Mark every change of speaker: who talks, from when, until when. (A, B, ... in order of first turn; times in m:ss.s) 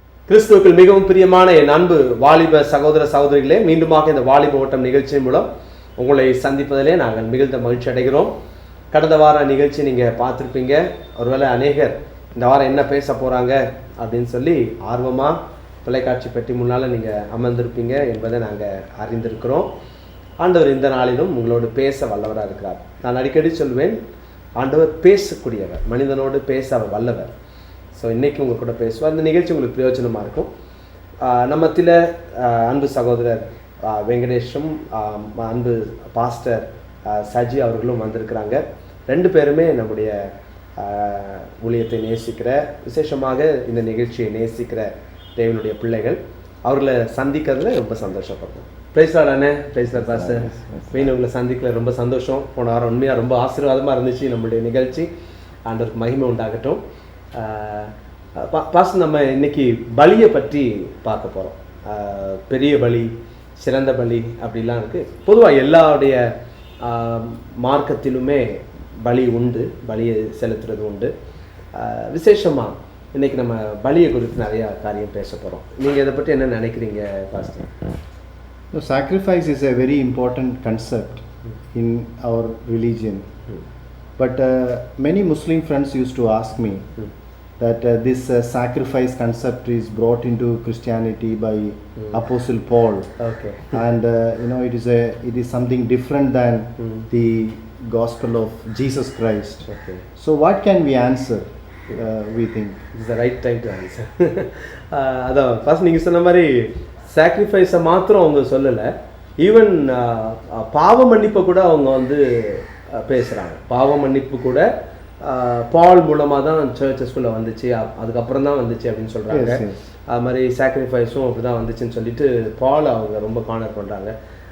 0:00.3-0:05.5 A
0:06.0-0:08.3 A
0:08.9-0:19.7 A
0:20.4-0:24.0 A
0:24.6-0:27.3 A
0:27.9-0:30.5 A
0:31.2-0:40.1 A
0:40.8-0:55.1 A
0:55.6-0:56.8 A
0:57.4-1:06.2 A
1:06.8-1:08.4 A
1:09.0-1:11.1 A
1:11.7-1:17.7 A
1:18.7-1:23.3 B
1:24.2-1:26.9 B
1:27.6-1:33.1 B
1:33.2-1:33.8 A
1:33.7-1:39.6 B
1:36.8-1:37.0 A
1:39.6-1:40.0 A
1:40.2-1:42.8 B
1:43.0-1:48.9 A
1:49.4-1:54.6 A
1:55.2-2:04.1 A
1:59.3-1:59.8 B